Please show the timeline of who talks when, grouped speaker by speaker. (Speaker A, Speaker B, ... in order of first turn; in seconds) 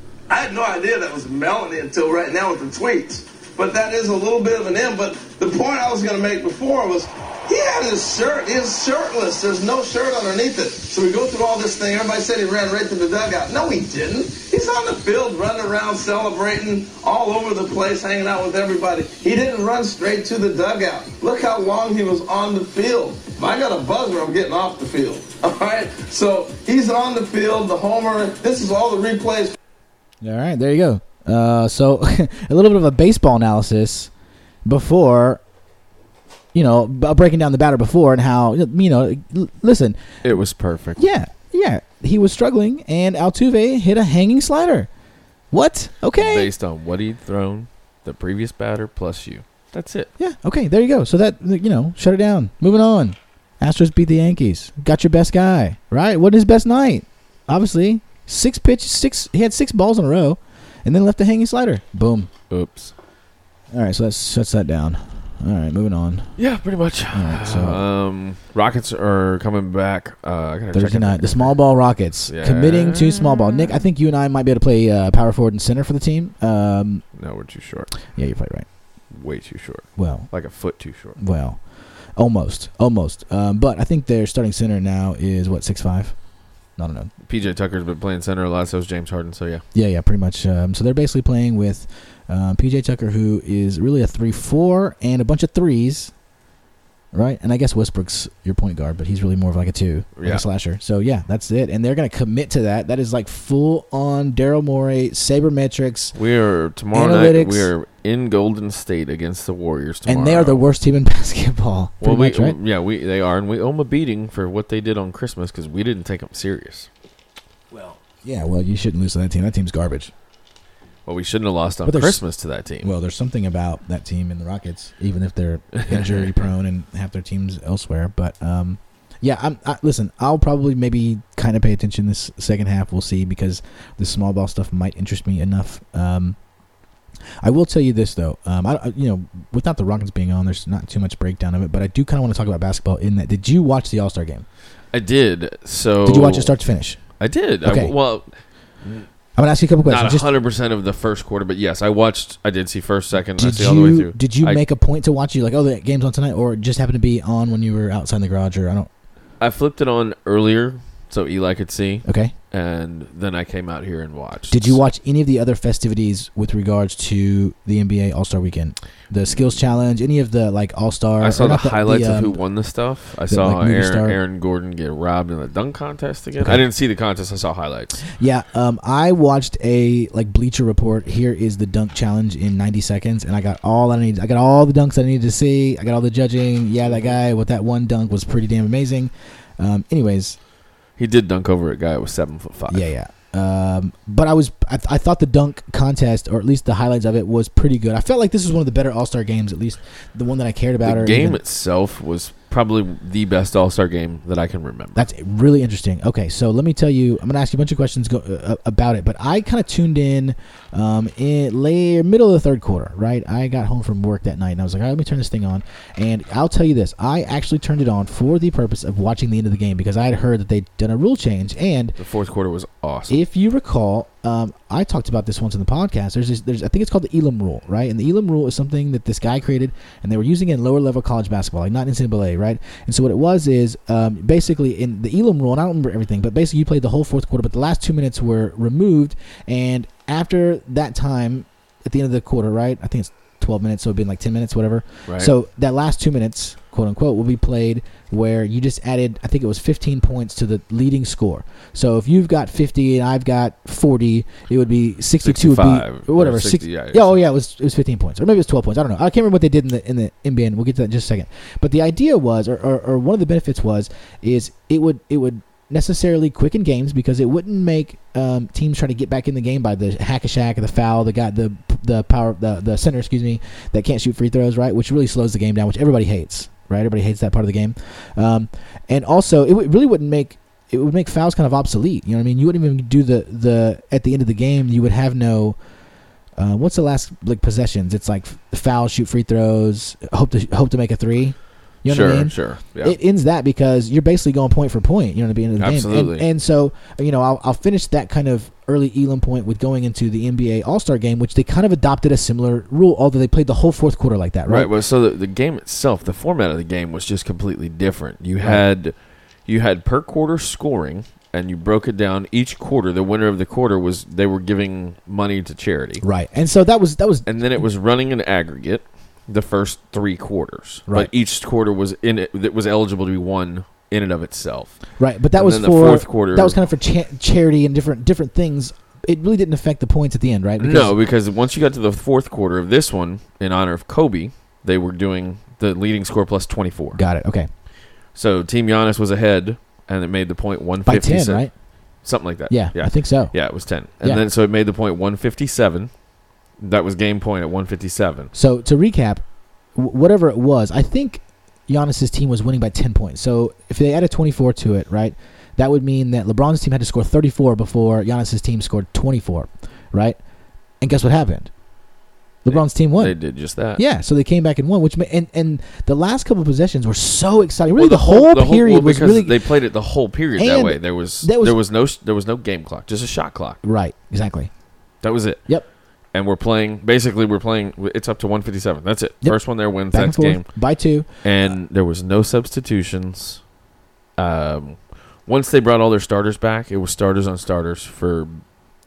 Speaker A: 0.3-29.6
Speaker B: 30.2-34.1, 34.6-35.4, 36.5-40.0, 41.0-44.9, 45.5-46.5, 50.2-62.3, 63.7-66.3, 67.1-67.8, 70.7-77.0, 78.1-78.7, 80.0-80.3, 81.2-81.6, 82.2-86.2, 86.8-87.1, 89.7-96.1, 97.1-106.2, 106.9-107.7, 110.1-112.6, 117.7-120.1, 121.8-122.2, 122.8-136.4, 137.4-144.4, 146.0-147.9, 149.4-150.3, 153.3-158.9, 162.1-162.3, 164.5-172.4, 173.3-174.2, 178.1-190.4, 192.7-201.4, 204.9-222.0, 223.1-285.6, 286.4-304.7, 316.0-317.3, 325.0-330.9, 337.0-337.5, 340.9-341.5, 342.5-344.2, 348.3-349.2, 349.8-360.2, 360.8-361.5, 362.4-363.2, 363.8-369.4, 370.4-371.6, 373.6-374.5, 379.2-381.2
Speaker C: 40.2-41.0, 46.1-50.1, 62.5-62.9, 66.4-71.6, 72.3-73.8, 77.2-77.9, 79.1-81.2, 87.2-89.6, 100.2-100.4, 106.2-110.6, 112.0-116.9, 121.1-122.9, 125.8-126.3, 144.9-146.6, 147.2-149.1, 149.8-154.6, 159.4-164.8, 171.2-178.0, 191.0-192.9, 200.8-205.1, 222.0-223.2, 245.1-245.3, 255.2-257.2, 291.9-293.0, 295.6-296.3, 304.5-316.0, 317.2-326.6, 330.6-337.0, 338.1-341.5, 342.0-346.0, 346.6-348.3, 362.5-363.8, 367.8-373.6, 375.0-380.5, 381.2-383.4, 384.2-388.4